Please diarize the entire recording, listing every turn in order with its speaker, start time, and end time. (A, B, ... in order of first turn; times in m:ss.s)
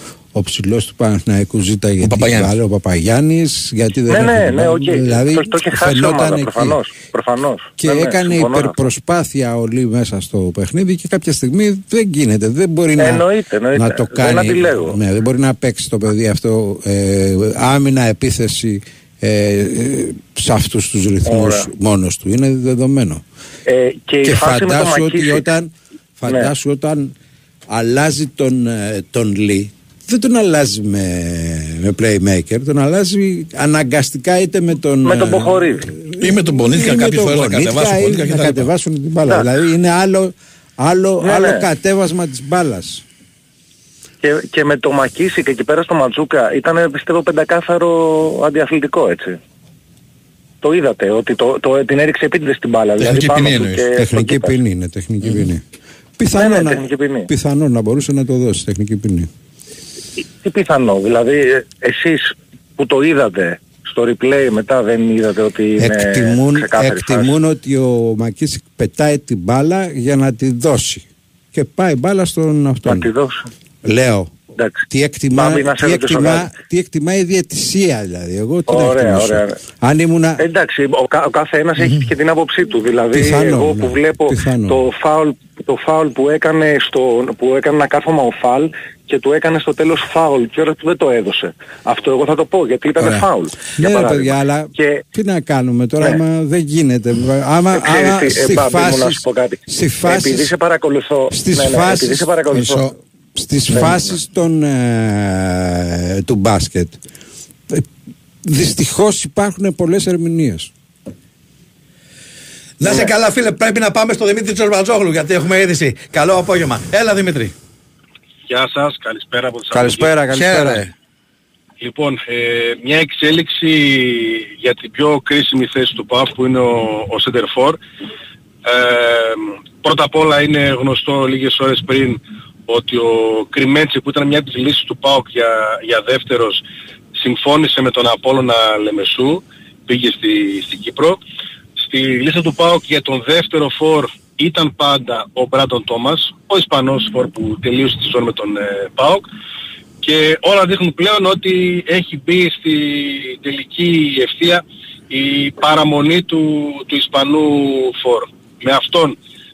0:00.3-0:06.8 A
0:02.0-0:02.5 B
0:04.1-0:08.8 C
0:07.8-0:23.2 A
0:13.0-0:15.0 C
0:21.3-0:21.7 C
0:23.7-0:25.4 C
0:24.2-0:27.1 A
0:27.7-0:43.0 A
0:35.0-0:35.9 C
0:36.2-0:38.7 B
0:41.2-0:41.7 C
0:44.2-0:49.4 C
0:50.6-0:54.6 C
0:53.0-0:53.9 B
0:54.0-0:55.6 A
0:56.2-0:59.3 A
0:56.3-0:57.3 C
1:00.2-1:07.4 C
1:05.8-1:13.1 A
1:12.9-1:13.5 C
1:13.8-1:14.3 A
1:14.6-1:14.8 C
1:14.9-1:20.4 A
1:15.3-1:16.5 C
1:18.7-1:19.6 C
1:20.4-1:35.0 C
1:23.1-1:24.8 A
1:33.8-1:40.5 A
1:37.7-1:42.8 C
1:41.3-1:42.3 A
1:42.5-1:42.9 B
1:43.4-1:47.0 A
1:43.7-1:44.2 C
1:48.4-1:50.7 A
1:52.8-1:57.5 B
1:58.5-2:00.1 D
1:59.7-2:00.8 A
2:00.3-2:00.9 B
2:01.8-2:07.8 D
2:08.7-2:16.6 D
2:17.2-2:21.2 D
2:21.8-2:29.2 D
2:30.0-2:39.2 D